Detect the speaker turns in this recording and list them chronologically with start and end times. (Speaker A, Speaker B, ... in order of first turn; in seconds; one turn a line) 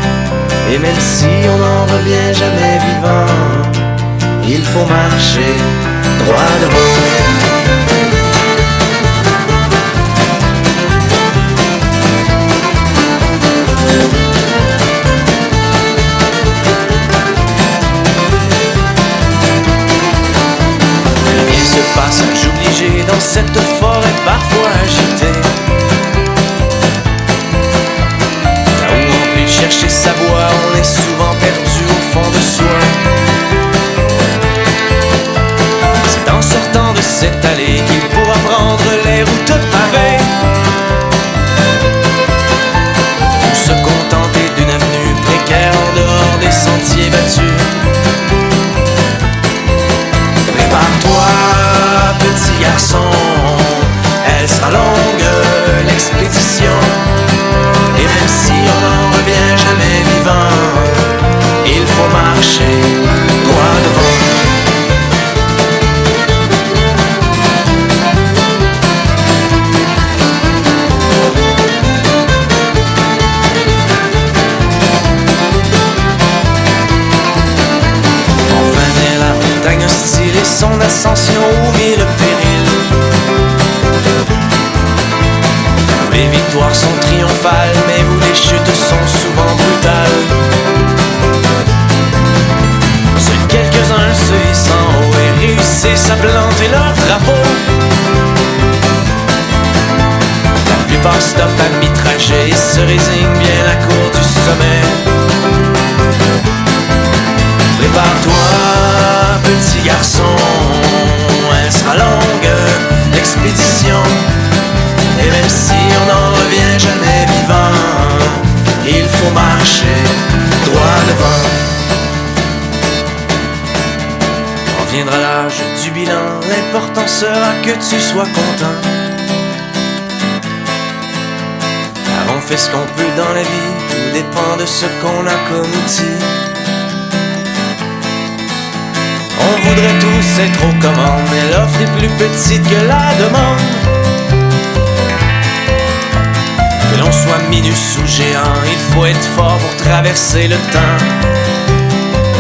Speaker A: 0.6-3.8
Speaker A: 4.4-7.5
Speaker A: 21.2-25.5
Speaker A: 28.8-33.0
Speaker A: 36.1-40.4
Speaker A: 43.4-47.9
Speaker A: 50.5-57.0
Speaker A: 57.9-61.1
Speaker A: 61.6-64.5
Speaker A: 78.5-82.9
Speaker A: 86.0-90.4
Speaker A: 93.1-97.7
Speaker A: 100.6-105.1
Speaker A: 107.7-114.3
Speaker A: 115.1-121.8
Speaker A: 124.7-129.0
Speaker A: 132.1-136.3
Speaker A: 139.3-143.9
Speaker A: 146.9-151.2